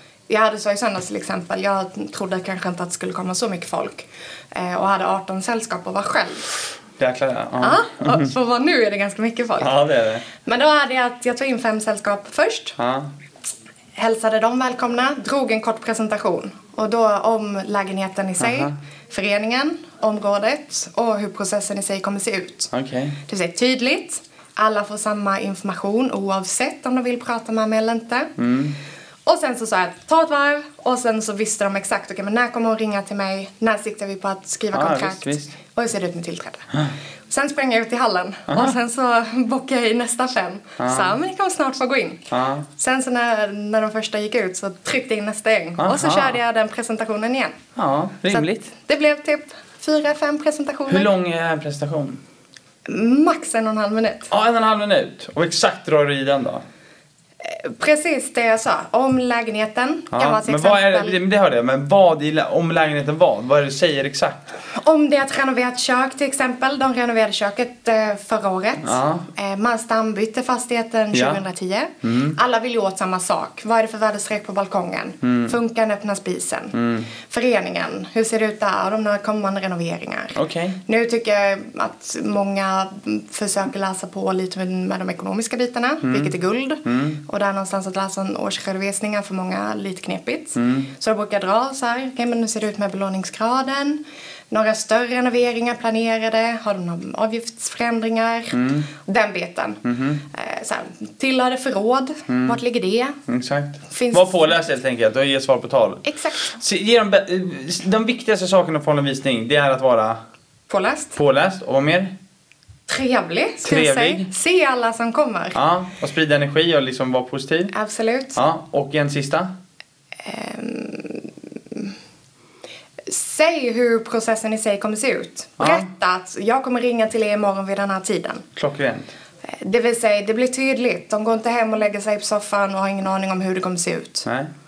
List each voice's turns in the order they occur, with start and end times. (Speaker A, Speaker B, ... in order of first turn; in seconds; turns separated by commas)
Speaker A: 0.3-6.5, Speaker B: 7.0-8.3, Speaker A: 7.6-9.8, Speaker B: 9.6-10.2, Speaker A: 10.3-12.8, Speaker B: 12.8-13.1, Speaker A: 13.9-22.7, Speaker B: 18.4-18.7, Speaker B: 22.7-23.2, Speaker A: 23.3-28.3, Speaker B: 28.4-28.8, Speaker A: 29.2-36.7, Speaker B: 34.7-35.5, Speaker A: 37.3-47.5, Speaker B: 38.5-38.7, Speaker B: 40.8-41.1, Speaker B: 42.3-42.7, Speaker B: 45.8-46.4, Speaker B: 47.8-48.7, Speaker A: 48.3-51.1, Speaker B: 50.9-52.2, Speaker A: 52.9-54.3, Speaker B: 54.3-56.6, Speaker A: 57.4-61.1, Speaker B: 60.1-64.4, Speaker A: 64.7-103.2, Speaker B: 68.8-69.3, Speaker B: 71.1-71.4, Speaker B: 72.0-72.4, Speaker B: 75.2-75.5, Speaker B: 76.7-77.1, Speaker B: 80.3-80.8, Speaker B: 86.0-86.3, Speaker B: 86.8-87.2, Speaker B: 90.6-90.9, Speaker B: 98.5-98.9, Speaker B: 99.8-100.2, Speaker B: 102.3-102.6, Speaker B: 103.3-110.2, Speaker A: 103.9-104.5, Speaker A: 106.0-106.6, Speaker A: 110.7-111.1, Speaker B: 111.2-112.1, Speaker A: 112.9-115.6, Speaker B: 113.6-114.3, Speaker B: 115.5-117.7, Speaker A: 117.7-118.4, Speaker B: 118.3-119.5, Speaker A: 120.2-121.9, Speaker A: 123.0-128.4, Speaker B: 125.6-125.9, Speaker B: 128.6-129.1, Speaker A: 129.5-134.2